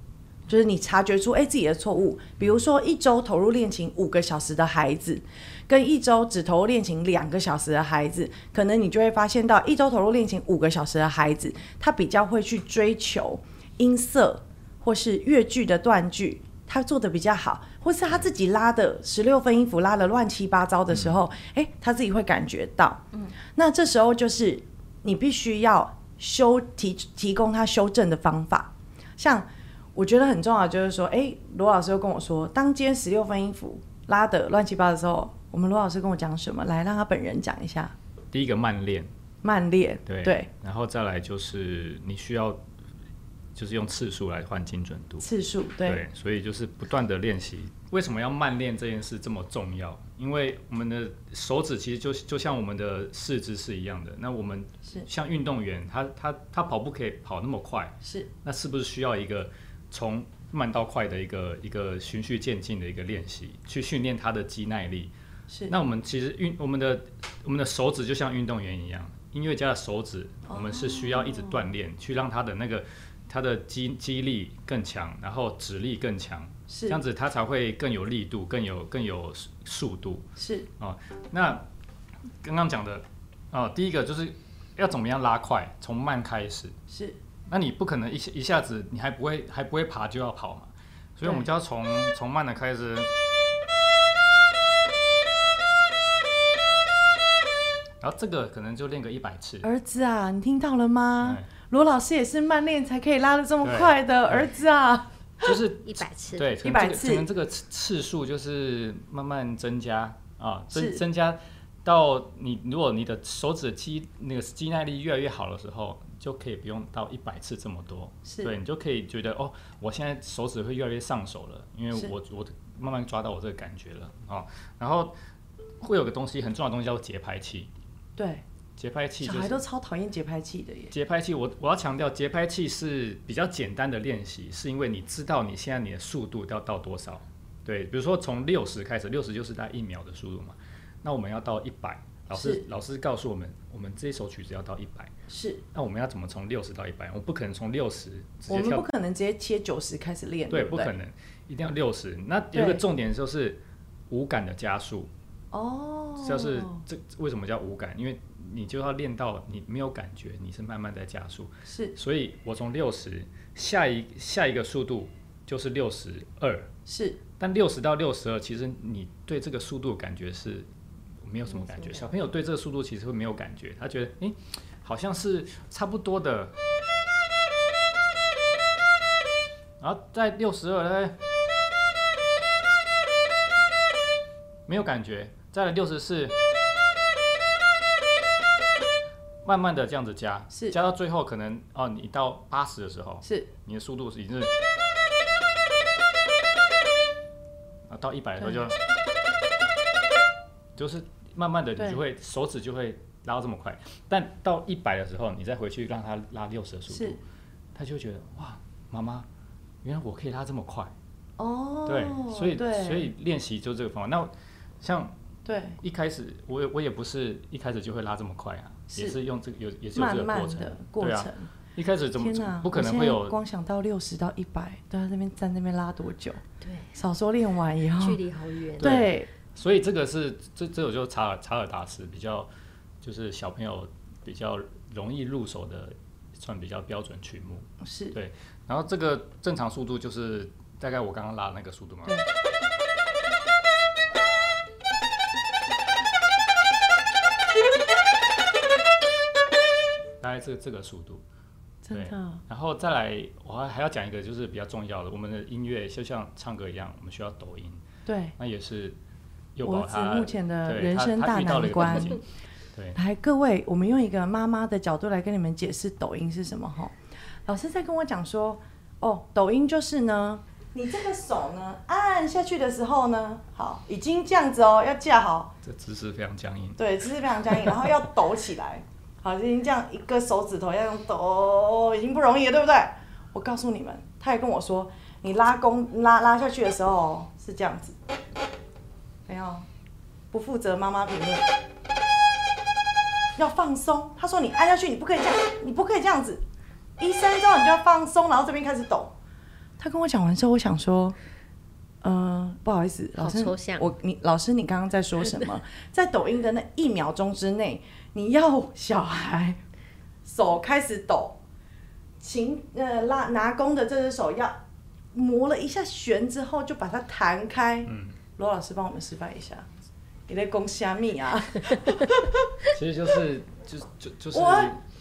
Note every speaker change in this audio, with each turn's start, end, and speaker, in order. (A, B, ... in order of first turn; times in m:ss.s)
0:00.5-0:23.0 A
0:20.9-0:21.2 B
0:23.5-0:37.9 A
0:38.3-0:39.1 B
0:39.4-0:40.5 A
0:40.1-0:42.6 B
0:43.6-0:45.3 B
0:45.2-0:46.0 A
0:45.8-1:05.1 B
0:58.0-0:58.3 A
1:05.7-1:21.6 B
1:10.5-1:11.6 A
1:16.7-1:17.0 A
1:20.4-1:20.7 A
1:22.4-1:26.8 B
1:26.9-1:27.2 A
1:27.5-1:33.1 B
1:38.0-1:39.7 B
1:39.6-1:45.5 A
1:41.2-1:41.5 B
1:43.6-1:44.5 B
1:45.4-2:05.1 B
1:45.8-1:46.6 C
1:46.6-1:47.3 A
1:50.7-1:51.0 A
1:58.3-1:58.5 A
2:05.8-2:07.7 B
2:08.2-2:08.4 A
2:08.8-2:09.6 B
2:09.2-2:10.9 A
2:10.9-2:25.1 B
2:22.3-2:22.6 A
2:25.3-2:25.6 A
2:25.7-2:28.9 B
2:28.5-2:30.9 A
2:30.5-2:35.1 B
2:32.5-2:32.8 A
2:35.5-2:36.8 A
2:36.2-2:46.7 B
2:41.7-2:42.0 A
2:46.9-2:47.2 A
2:47.4-2:50.7 B
2:51.2-2:56.6 B
2:51.6-2:52.0 C
2:59.8-3:01.2 B
3:04.7-3:06.4 B
3:09.4-3:14.5 B
3:10.5-3:10.8 A
3:13.2-3:13.5 A
3:17.9-3:18.8 B
3:20.8-3:27.2 B
3:26.9-3:27.2 A
3:27.8-3:29.3 B
3:29.8-3:30.9 B
3:31.4-3:33.1 A
3:31.9-3:35.2 B
3:35.5-3:35.8 A
3:35.8-3:43.4 B
3:40.0-3:41.5 A
3:42.2-3:46.4 A
3:46.6-3:47.0 C
3:47.0-3:48.2 A
3:48.0-3:49.0 C
3:48.8-3:49.3 A
3:48.8-3:52.5 B
3:53.0-4:02.2 B
3:57.8-3:58.2 A
4:10.2-4:11.2 B
4:11.8-4:12.4 A
4:11.9-4:17.8 B
4:18.1-4:18.4 A
4:18.4-4:19.0 B
4:19.6-4:22.2 B
4:19.6-4:22.2 A
4:23.0-4:27.0 A
4:27.5-4:35.5 A
4:35.6-4:36.8 B
4:36.8-4:48.0 A
4:37.5-4:37.8 B
4:49.3-4:49.7 A
4:50.3-4:51.5 A
4:53.4-4:56.4 A
4:57.0-4:59.1 A
4:59.8-5:01.2 A
5:02.0-5:09.6 A
5:03.2-5:03.9 C
5:10.2-5:11.4 A
5:12.2-5:14.6 A
5:15.1-5:19.7 A
5:17.9-5:18.2 B
5:20.3-5:22.6 A
5:22.6-5:24.8 B
5:24.3-5:24.8 A